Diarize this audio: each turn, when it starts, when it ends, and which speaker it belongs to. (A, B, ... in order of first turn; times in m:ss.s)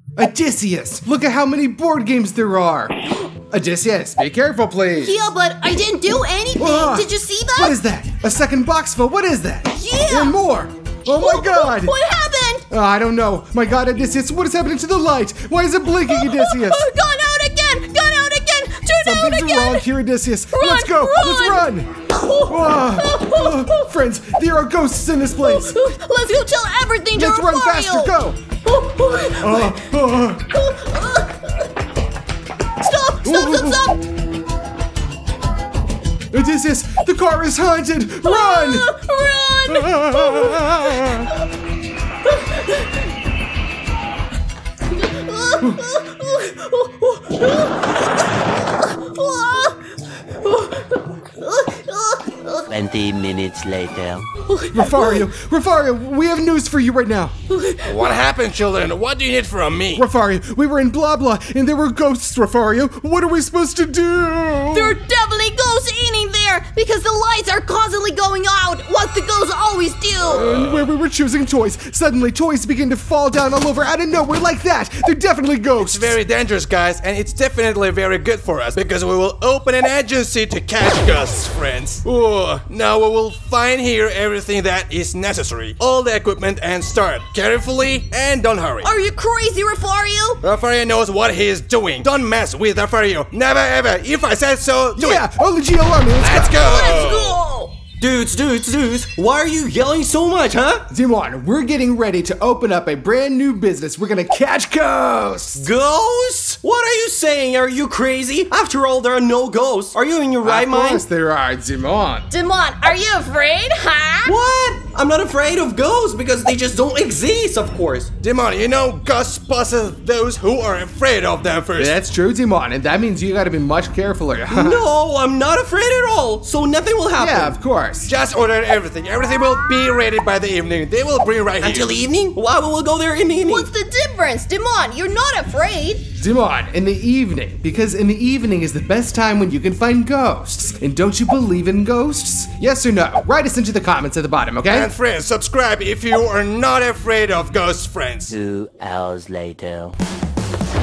0:00.2-0:05.2 A
0:05.0-0:07.8 B
0:06.6-0:12.0 A
0:09.7-0:10.4 B
0:11.1-0:12.6 B
0:12.7-0:16.8 A
0:16.1-0:19.9 B
0:19.0-0:21.9 A
0:20.5-0:23.9 B
0:22.5-0:25.8 A
0:25.4-0:29.8 B
0:27.1-0:28.4 A
0:29.4-0:30.4 A
0:30.5-0:31.6 B
0:32.8-0:34.0 B
0:33.2-0:34.0 A
0:36.3-0:39.0 A
0:38.2-0:40.8 B
0:39.7-0:41.3 A
0:45.0-0:48.0 B
0:48.8-0:49.8 B
0:50.4-0:52.7 B
0:52.7-0:54.2 C
0:54.5-0:55.2 B
0:54.7-0:57.3 A
0:57.5-0:57.9 B
0:57.8-1:00.0 D
1:00.0-1:05.0 A
1:04.7-1:10.5 B
1:10.3-1:16.2 A
1:10.3-1:10.9 D
1:15.8-1:28.9 D
1:28.8-1:30.4 B
1:30.4-1:35.2 D
1:35.0-1:36.8 A
1:36.2-1:37.4 D
1:36.6-1:37.7 B
1:38.0-1:40.8 E
1:40.9-1:45.7 A
1:45.6-1:51.0 E
1:50.4-1:52.3 A
1:52.3-1:54.3 B
1:54.2-1:58.1 E
1:58.2-2:02.0 D
2:01.8-2:04.8 A
2:04.5-2:07.6 E
2:07.2-2:08.1 A
2:08.0-2:12.0 D
2:11.6-2:13.7 E
2:13.4-2:16.0 B
2:16.2-2:24.9 A
2:24.7-2:28.3 D
2:28.3-2:30.0 C